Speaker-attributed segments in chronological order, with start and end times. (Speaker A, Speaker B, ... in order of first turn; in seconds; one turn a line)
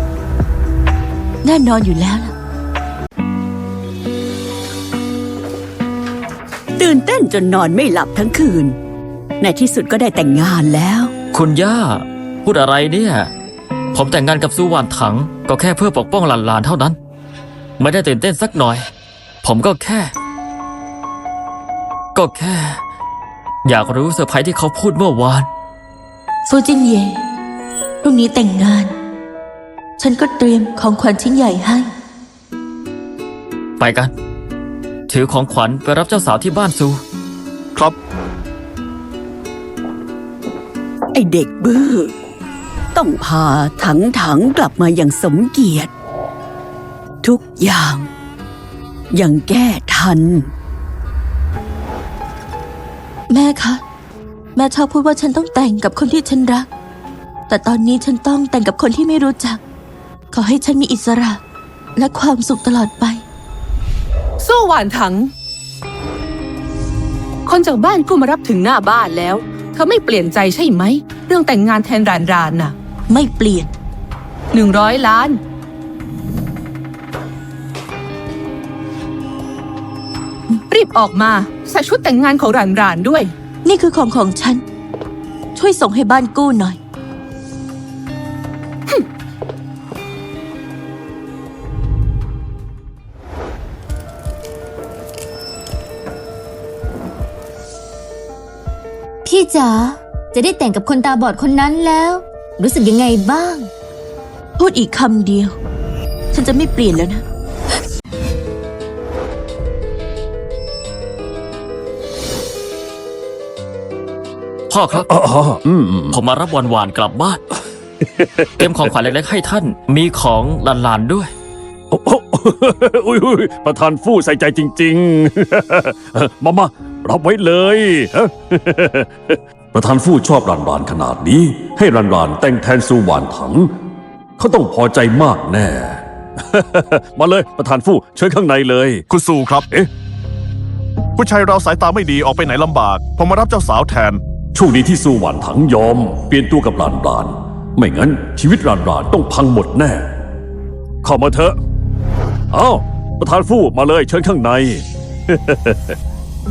Speaker A: 1.4-2.4
Speaker B: 6.8-8.8
Speaker B: 9.4-11.1
Speaker C: 11.3-13.3
Speaker C: 13.9-17.0
Speaker C: 17.8-18.9
Speaker C: 19.4-20.1
Speaker C: 22.1-22.8
Speaker C: 23.6-25.5
Speaker A: 26.4-27.3
Speaker A: 28.0-28.9
Speaker A: 30.0-31.9
Speaker C: 33.8-34.1
Speaker C: 35.1-37.0
Speaker B: 41.1-42.1
Speaker B: 43.0-45.9
Speaker B: 47.2-48.1
Speaker B: 49.1-50.5
Speaker A: 53.3-53.8
Speaker A: 54.5-56.7
Speaker A: 57.5-59.6
Speaker A: 60.3-61.4
Speaker A: 62.0-63.2
Speaker D: 64.4-65.3
Speaker D: 67.5-72.8
Speaker A: 73.1-73.7
Speaker D: 74.5-75.4
Speaker D: 80.7-83.3
Speaker A: 83.7-84.6
Speaker A: 85.6-86.8
Speaker E: 99.2-103.7
Speaker A: 104.6-105.5
Speaker A: 106.3-107.2
Speaker C: 114.7-115.1
Speaker F: 115.0-116.2
Speaker C: 116.1-117.4
Speaker F: 118.2-118.7
Speaker C: 118.6-121.3
Speaker F: 121.9-133.7
Speaker F: 134.4-139.0
Speaker G: 139.1-139.7
Speaker G: 141.2-144.2
Speaker F: 144.6-150.1
Speaker F: 151.0-151.6
Speaker F: 152.5-156.0